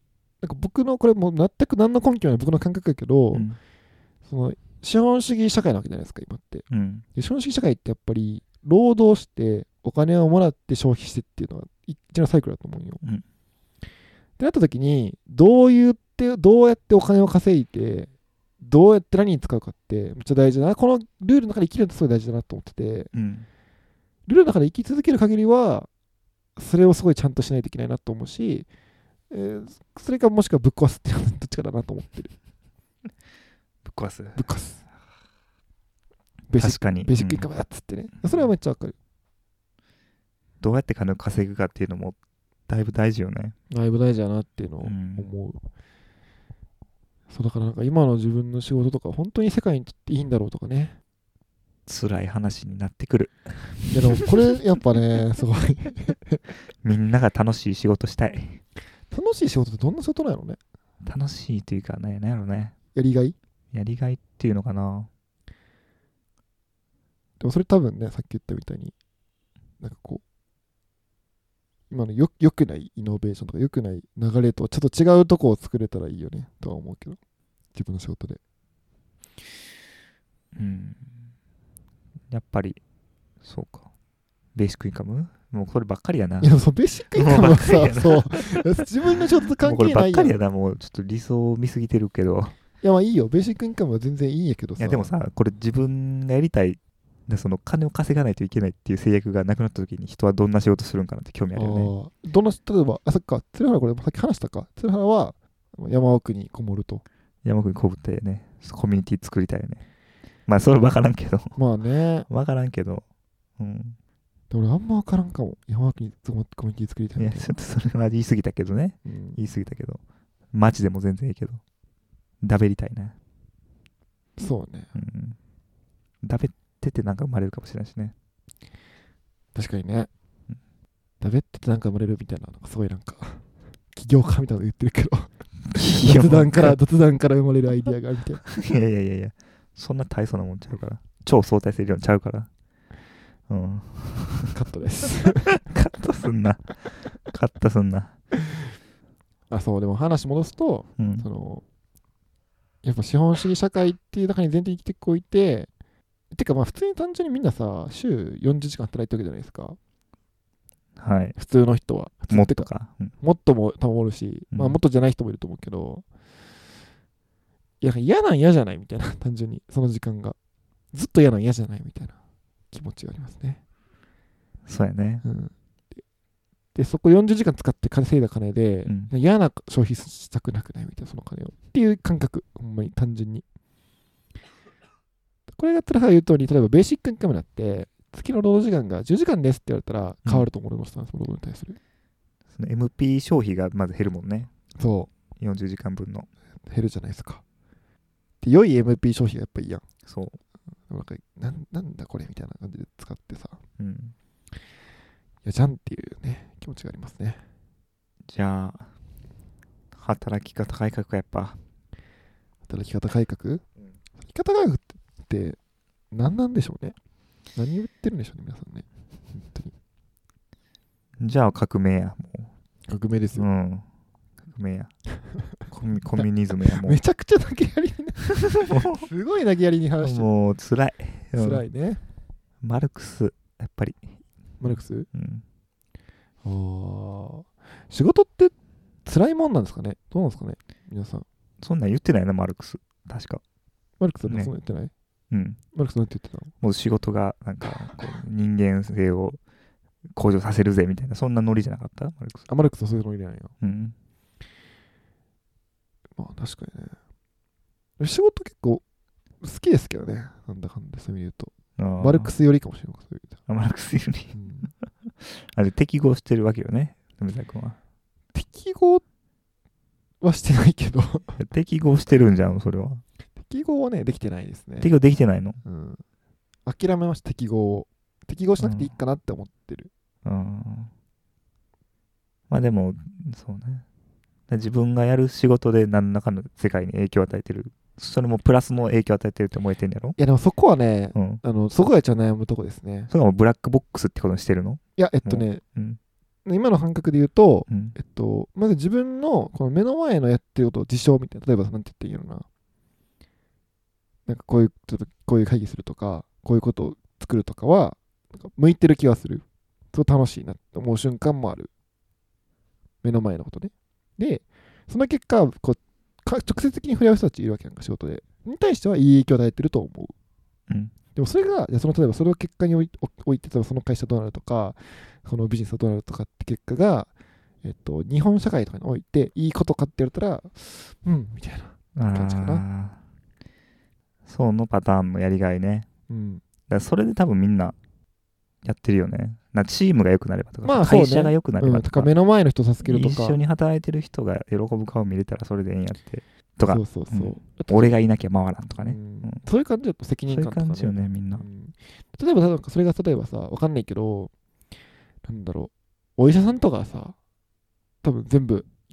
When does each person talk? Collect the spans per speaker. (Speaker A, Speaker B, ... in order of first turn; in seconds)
Speaker A: 0.4-3.5, 4.2-13.0, 14.4-23.1, 24.3-25.9, 26.6-28.7, 29.3-32.3, 34.3-34.8, 36.5-39.0, 43.7-45.6, 47.3-51.0, 53.9-56.5, 59.1-60.6, 62.9-63.4, 67.4-68.9, 69.8-70.2, 71.9-77.2, 77.7-78.4, 86.4-90.4, 92.8-95.1, 101.5-107.0, 111.5-112.3, 114.5-117.5, 119.0-119.4, 124.4-124.9, 129.5-130.1, 131.2-138.4, 144.5-145.6, 149.5-151.6, 152.8-155.7, 156.3-159.8, 161.3-162.7, 163.2-166.0, 167.8-170.3, 170.9-172.2, 172.7-173.6, 175.2-175.5, 176.7-183.4, 185.6-191.8, 194.8-195.1, 196.7-197.4, 198.4-199.8, 200.9-203.6, 205.4-207.4, 212.7-213.6, 214.2-215.6, 216.1-216.9, 217.5-219.7, 222.9-223.5, 226.2-230.3, 231.3-232.0, 234.6-235.1, 236.4-238.5, 239.0-241.2, 244.0-244.9, 245.7-246.5, 247.6-248.2, 252.5-253.5, 256.2-256.9, 258.0-258.8, 259.4-263.4, 264.3-264.7, 268.3-269.0, 270.2-271.4, 273.4-274.9, 275.6-276.0, 276.6-279.9, 290.2-293.1, 295.0-295.6, 296.4-302.4, 304.3-311.7, 313.0-320.1, 321.1-327.1, 327.6-332.6, 336.1-336.4, 340.6-343.4, 346.7-347.9, 348.8-354.3, 355.2-357.1, 358.0-358.7
Speaker B: 3.3-3.6, 6.7-7.0, 23.1-23.5, 33.8-34.4, 36.6-37.5, 38.2-38.5, 40.6-42.2, 42.7-43.5, 44.8-45.3, 51.9-54.2, 56.8-58.6, 61.0-62.7, 63.7-65.1, 80.5-81.2, 82.3-82.8, 83.4-83.9, 84.5-86.5, 87.1-88.7, 89.6-92.5, 94.8-101.9, 107.4-109.8, 110.5-111.5, 112.3-113.0, 113.6-114.0, 117.2-120.0, 120.5-121.6, 122.4-123.2, 124.9-125.4, 126.2-128.1, 135.7-136.8, 138.4-142.5, 143.5-144.5, 145.5-148.1, 151.0-151.2, 161.0-161.3, 162.3-163.1, 164.5-164.8, 174.7-175.2, 178.8-179.1, 192.5-194.5, 195.4-196.3, 200.0-200.4, 203.8-204.1, 208.3-208.9, 209.9-211.6, 221.2-222.5, 223.3-223.8, 224.4-224.9, 225.6-227.0, 228.5-229.1, 230.0-231.6, 232.6-234.0, 234.7-235.4, 241.6-243.4, 244.2-244.5, 245.3-245.6, 246.6-249.4, 250.1-252.5, 253.6-253.9, 261.8-262.3, 263.5-264.4, 265.1-267.8, 271.3-273.0, 274.8-275.6, 278.6-278.9, 280.2-280.9, 282.5-283.8, 284.5-290.2, 291.1-291.4, 293.1-296.0, 297.7-297.9, 331.9-333.0, 334.2-335.9, 336.7-337.8, 338.6-342.1, 342.8-349.4, 350.3-351.4